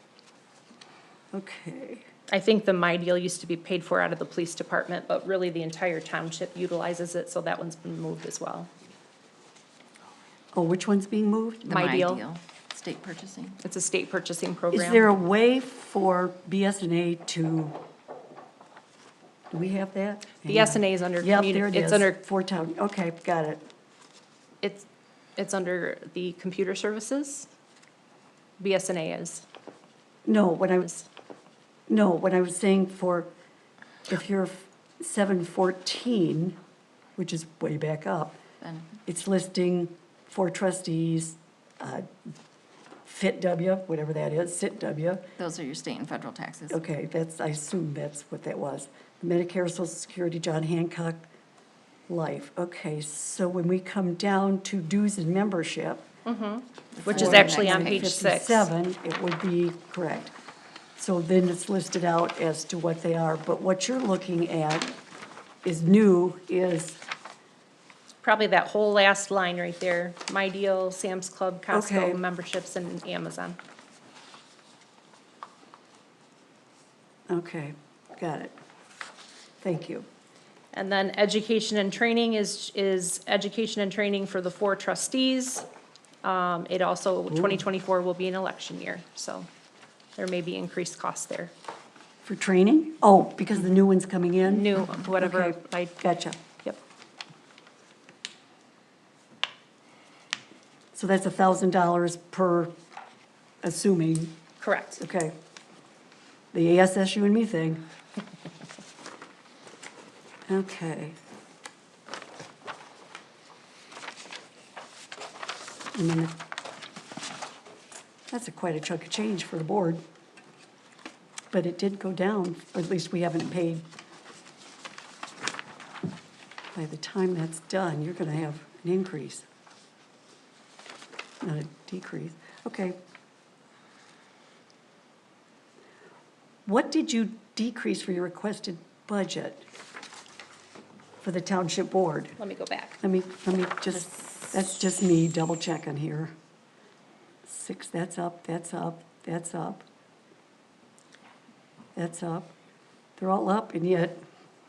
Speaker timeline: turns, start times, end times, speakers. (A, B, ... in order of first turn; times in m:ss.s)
0:01.3-0:02.1 A
0:02.3-0:08.7 B
0:10.5-0:11.7 A
0:11.6-0:13.6 C
0:11.7-0:12.2 B
0:13.6-0:15.1 B
0:14.7-0:17.8 A
0:19.5-0:23.6 A
0:20.4-0:22.2 B
0:24.6-0:27.5 B
0:28.6-0:29.4 B
0:30.3-0:30.9 A
0:31.9-0:33.3 A
0:34.1-0:36.6 A
0:37.2-0:38.4 A
0:38.6-0:38.9 C
0:39.1-0:42.1 A
0:43.0-0:45.3 A
0:45.4-0:46.8 C
0:46.7-0:51.3 A
0:52.1-0:56.1 A
0:56.2-0:58.7 B
0:57.0-0:58.0 C
0:57.1-1:00.3 A
1:01.0-1:05.0 A
1:05.6-1:07.0 A
1:08.2-1:13.6 B
1:11.7-1:12.2 A
1:17.3-1:18.5 A
1:19.6-1:20.1 A
1:20.7-1:25.7 B
1:26.2-1:29.5 B
1:27.3-1:27.6 A
1:30.2-1:31.5 B
1:32.2-1:36.4 A
1:34.5-1:36.0 B
1:40.9-1:42.7 A
1:43.6-1:44.4 A
1:44.6-1:45.0 B
1:45.0-1:45.4 A
1:46.5-1:47.8 A
1:50.5-1:51.2 A
1:55.9-1:56.4 A
1:58.3-2:00.0 A
2:01.5-2:03.8 A
2:06.7-2:09.5 A
2:11.4-2:13.0 A
2:16.7-2:19.7 A
2:21.2-2:22.4 A
2:22.4-2:23.0 B
2:23.0-2:26.3 A
2:27.4-2:29.8 A
2:32.0-2:32.5 A
2:33.2-2:34.2 A